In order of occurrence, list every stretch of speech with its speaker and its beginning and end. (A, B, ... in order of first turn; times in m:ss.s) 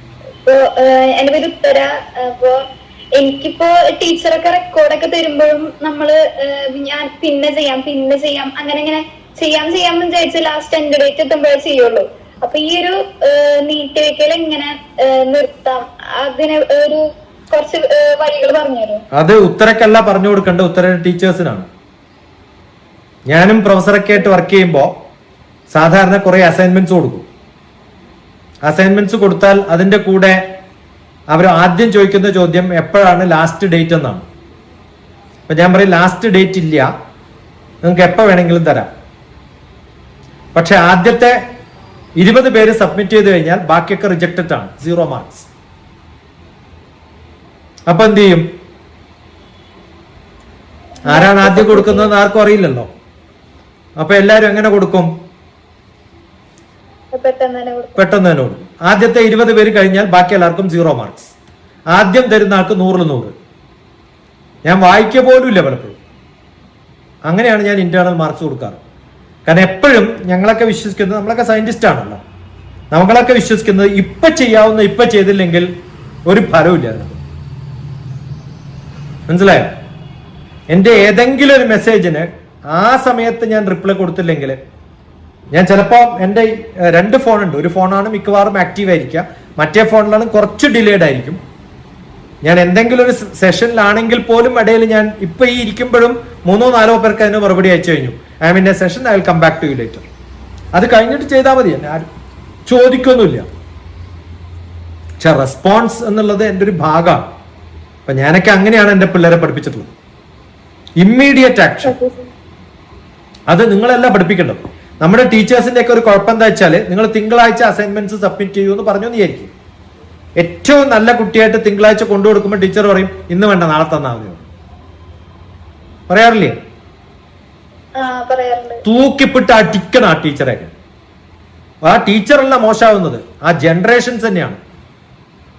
0:00.5-0:02.6 A
0:03.2-0:19.0 A
0:19.1-0:21.7 B
0:23.3-0:24.9 B
0:25.7-0:27.3 B
0:28.6-0:30.4 B
0:31.3-0:34.2 B
0:35.5-0:36.9 B
0:37.8-0:38.9 B
0:40.6-0:41.4 B
0:42.2-0:45.5 B
0:47.9-0:48.4 B
0:51.0-0:52.1 A
0:51.0-0:52.9 B
0:54.0-0:55.1 B
0:57.1-0:58.0 A
0:58.0-1:01.3 B
1:01.9-1:03.3 B
1:04.6-1:06.0 B
1:07.3-1:08.8 B
1:09.4-1:12.2 B
1:12.9-1:15.7 B
1:16.3-1:17.2 B
1:19.3-1:19.7 B
1:20.7-1:24.6 B
1:25.5-1:31.4 B
1:32.4-1:40.0 B
1:40.8-1:42.1 B
1:42.7-1:43.4 B
1:45.2-1:47.2 B
1:48.1-1:49.9 B
1:51.0-1:51.9 B
1:51.9-1:52.3 A
1:53.5-1:59.5 B
2:00.4-2:04.4 B
2:06.1-2:06.5 B
2:07.9-2:08.8 A
2:08.8-2:10.7 B
2:11.8-2:14.6 B